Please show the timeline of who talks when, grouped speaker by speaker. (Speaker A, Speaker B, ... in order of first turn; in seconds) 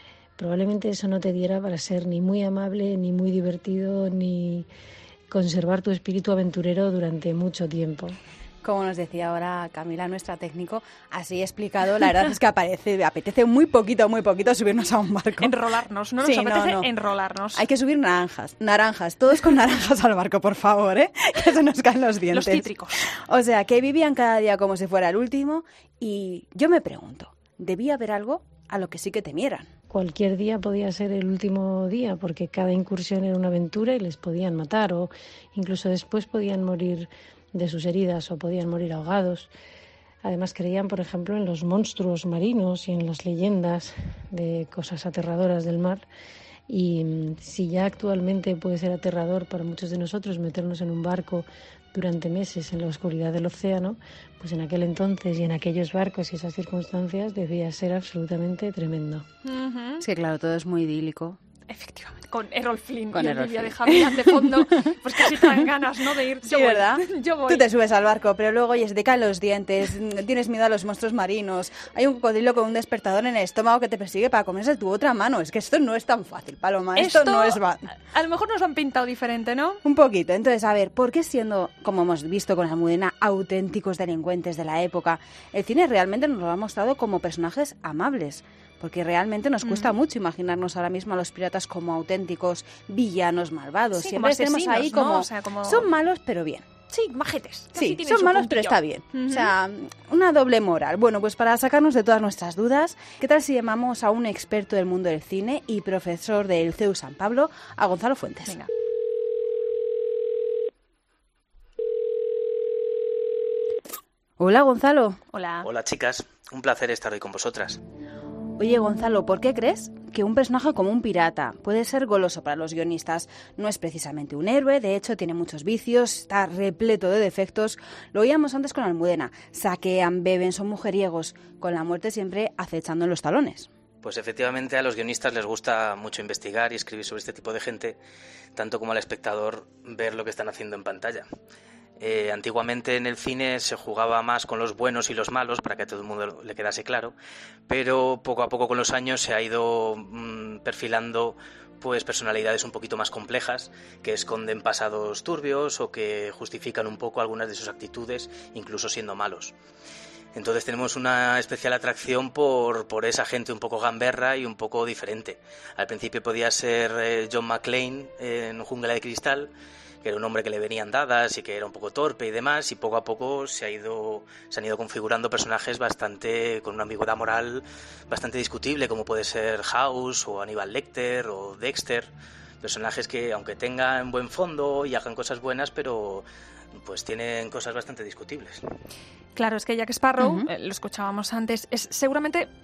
Speaker A: 0.4-4.7, 5.3-8.2, 29.9-39.5, 40.2-46.0, 46.7-59.2
Speaker B: 8.6-15.5, 16.2-16.9, 17.6-29.7, 60.0-61.4, 63.1-64.3, 66.4-77.8, 79.8-96.7, 97.8-108.6, 114.4-115.2, 118.6-133.7, 190.2-190.5
Speaker C: 15.4-17.6, 22.3-23.1, 59.5-60.0, 61.7-67.7, 77.0-79.8, 89.6-90.0, 94.0-95.9, 96.9-99.5, 115.3-115.7, 189.3-192.5
Speaker D: 115.6-117.8, 134.0-138.0, 138.6-141.3, 142.0-147.2, 147.7-159.5, 160.3-169.5, 170.0-182.1, 182.6-186.3, 186.8-188.6